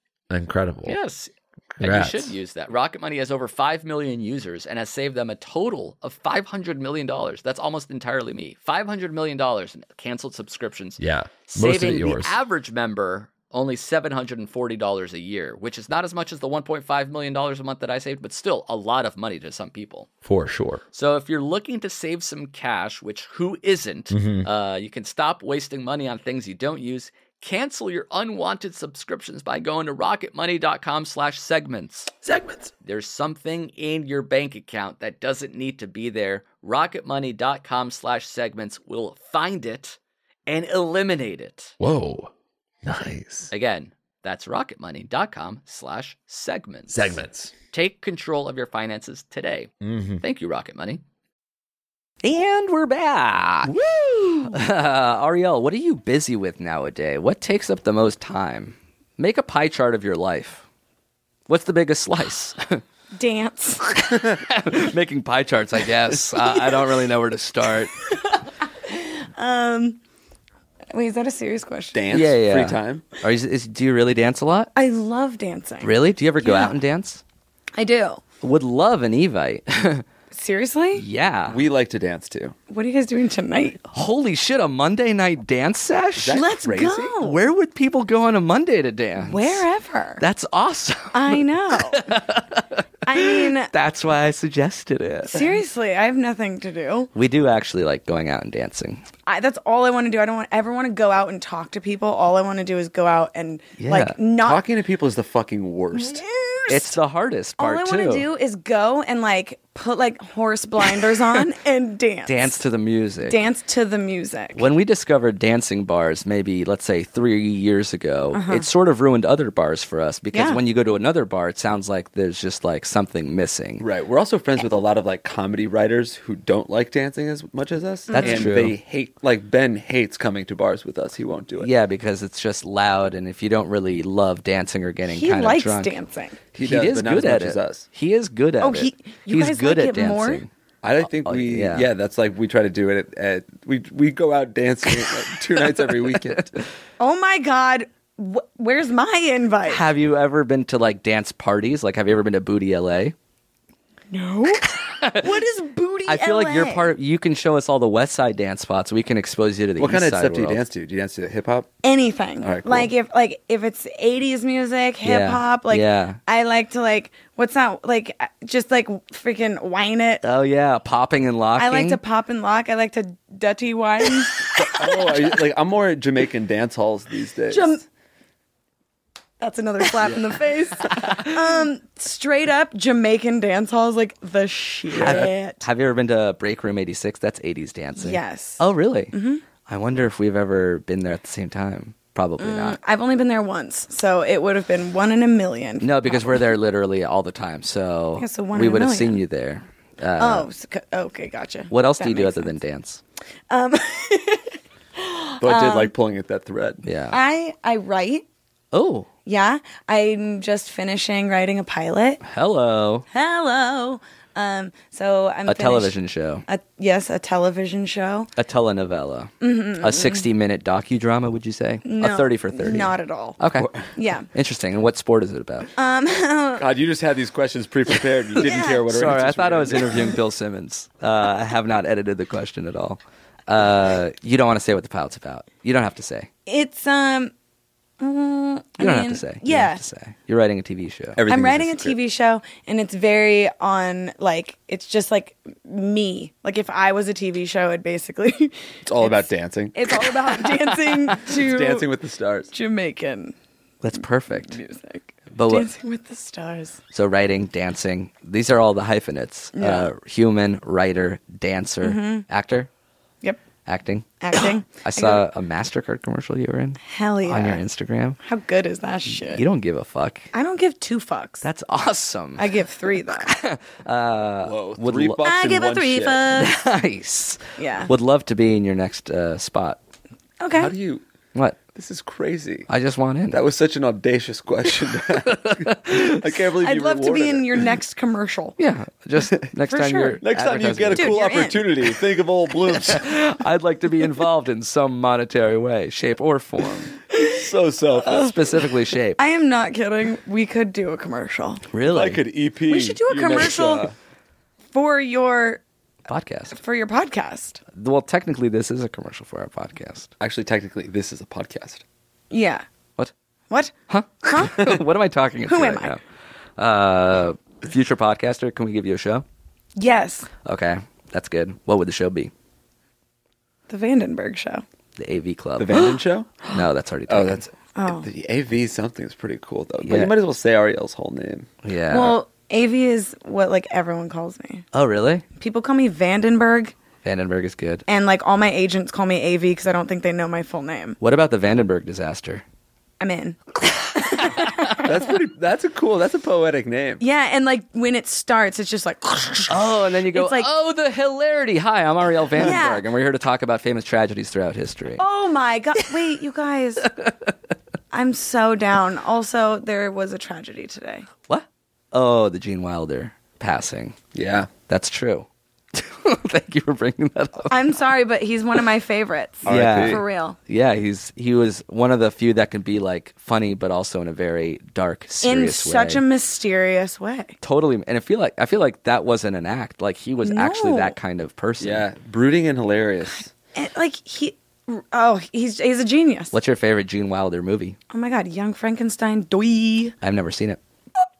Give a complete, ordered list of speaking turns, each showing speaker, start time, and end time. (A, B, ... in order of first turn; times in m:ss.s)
0:00.3-0:01.0 A
0:00.8-0:20.1 B
0:01.8-0:02.3 A
0:11.0-0:12.4 A
0:20.2-0:20.8 A
0:20.9-0:32.2 B
0:24.1-0:24.5 A
0:32.2-0:32.7 A
0:32.8-0:41.7 B
0:41.8-0:42.3 A
0:42.8-0:43.5 A
0:43.5-0:47.2 B
0:46.9-0:47.5 A
0:47.7-0:51.0 B
0:49.8-0:50.2 A
0:52.2-1:00.6 C
1:01.5-1:02.8 C
1:03.2-1:04.0 D
1:04.0-1:07.9 C
1:08.0-1:10.0 D
1:10.9-1:12.0 D
1:11.9-1:13.0 E
1:12.1-1:14.7 C
1:14.7-1:16.7 D
1:15.8-1:17.2 C
1:17.8-1:18.2 D
1:18.4-1:20.0 C
1:20.3-1:21.0 D
1:21.0-1:21.6 C
1:21.5-1:22.5 E
1:22.7-1:23.8 D
1:23.8-1:26.5 C
1:26.2-1:27.1 E
1:26.3-1:27.4 D
1:27.2-1:29.6 C
1:29.2-1:30.2 D
1:30.2-1:35.6 C
1:31.1-1:32.1 D
1:33.0-1:33.7 D
1:35.3-1:37.1 D
1:37.1-1:39.0 C
1:39.3-1:44.6 D
1:43.8-1:44.2 C
1:44.4-1:46.2 E
1:45.9-1:47.0 D
1:46.7-1:48.3 C
1:47.6-1:52.6 D
1:52.2-1:53.4 C
1:53.2-1:54.6 D
1:54.5-2:03.8 C
1:58.3-1:58.6 D
2:00.3-2:00.6 D
2:03.8-2:11.7 E
2:08.1-2:08.5 D
2:08.1-2:08.8 C
2:11.6-2:15.9 C
2:15.1-2:16.4 D
2:16.5-2:17.9 E
2:16.6-2:20.5 C
2:18.6-2:20.4 D
2:20.8-2:26.6 E
2:21.2-2:21.9 C
2:27.0-2:29.8 D
2:29.6-2:33.1 C
2:34.1-2:36.9 D
2:36.1-2:40.6 C
2:39.8-2:41.7 E
2:41.8-2:50.2 D
2:42.4-2:42.9 E
2:45.0-2:46.2 C
2:50.2-2:52.0 C
2:51.6-2:55.1 D
2:54.6-2:57.8 E
2:57.5-2:57.8 D
2:59.4-3:05.6 D
3:04.9-3:09.1 C
3:05.0-3:05.3 E
3:08.0-3:09.4 D
3:09.7-3:12.8 C
3:12.4-3:16.2 D
3:15.8-3:20.5 C
3:18.2-3:19.2 D
3:20.2-3:22.5 D
3:21.7-3:23.0 C
3:23.5-3:25.9 D
3:25.4-3:26.8 E
3:26.8-3:27.2 C
3:27.1-3:28.2 D
3:28.7-3:29.1 C
3:29.2-3:32.2 D
3:32.2-3:33.1 C
3:33.1-3:35.9 D
3:35.5-3:36.4 C
3:36.5-3:38.3 D
3:38.4-3:43.7 C
3:39.4-3:40.2 D
3:41.8-3:43.4 D
3:43.9-3:44.3 D
3:44.3-3:45.7 C
3:45.8-3:46.7 D
3:46.6-3:50.2 E
3:48.4-3:49.1 D
3:48.9-3:56.3 C
3:56.5-3:57.3 D
3:58.0-3:59.8 D
3:58.8-4:01.2 C
4:01.2-4:02.0 E
4:01.3-4:09.1 D
4:08.8-4:09.8 E
4:09.7-4:11.9 D
4:11.2-4:12.5 E
4:12.5-4:13.3 D
4:13.8-4:14.6 C
4:14.0-4:16.8 D
4:15.3-4:15.7 C
4:16.9-4:22.7 C
4:19.5-4:19.9 D
4:21.8-4:22.2 D
4:23.7-4:28.2 C
4:24.2-4:25.2 D
4:26.8-4:27.6 D
4:28.2-4:29.4 D
4:29.2-4:30.3 C
4:30.3-4:31.4 D
4:31.4-4:35.2 C
4:32.4-4:33.3 D
4:34.4-4:36.2 E
4:35.2-4:36.6 D
4:36.4-4:39.8 C
4:37.6-4:37.9 D
4:40.4-4:40.7 D
4:40.5-4:41.0 E
4:41.7-4:42.7 E
4:42.7-4:43.4 C
4:43.3-4:47.7 E
4:45.3-4:46.2 C
4:46.6-4:48.6 D
4:48.6-4:51.2 C
4:49.6-4:50.2 D
4:50.2-4:53.1 E
4:51.0-4:51.7 D
4:52.8-4:56.9 C
4:57.1-4:57.4 D
4:57.3-4:58.3 E
4:58.0-4:58.3 D
4:58.1-4:59.2 C
4:59.2-5:01.6 D
5:01.7-5:02.2 C
5:01.9-5:03.9 E
5:02.7-5:03.9 D
5:04.7-5:05.6 D
5:06.1-5:06.5 C
5:06.5-5:07.6 D
5:07.7-5:10.1 C
5:10.2-5:11.8 E
5:12.3-5:12.6 D
5:13.9-5:16.0 C
5:14.2-5:14.7 D
5:15.5-5:15.9 D
5:16.6-5:19.2 C
5:19.8-5:20.3 D
5:20.4-5:22.3 C
5:23.7-5:24.6 D
5:25.0-5:26.0 C
5:25.6-5:26.4 E
5:26.5-5:27.5 C
5:27.1-5:31.5 E
5:27.8-5:28.1 D
5:29.8-5:30.1 C
5:31.6-5:32.2 C
5:31.9-5:34.6 D
5:34.7-5:35.2 C
5:35.4-5:36.7 D
5:37.0-5:37.8 C
5:37.9-5:41.0 D
5:41.0-5:42.4 C
5:43.0-5:45.0 D
5:44.8-5:47.0 E
5:47.0-5:50.5 D
5:49.5-5:55.0 C
5:52.4-5:52.8 D
5:55.0-5:56.9 D
5:56.9-5:57.1 C
5:57.9-6:01.1 D
6:01.3-6:04.0 C
6:04.1-6:04.5 E
6:04.7-6:07.7 C
6:07.5-6:10.4 D
6:09.4-6:10.0 E
6:09.4-6:16.0 C
6:15.2-6:17.3 D
6:17.4-6:21.8 C
6:20.2-6:20.9 D
6:21.6-6:23.3 E
6:23.5-6:26.3 D
6:26.3-6:27.8 C
6:27.9-6:30.0 D
6:30.0-6:30.6 C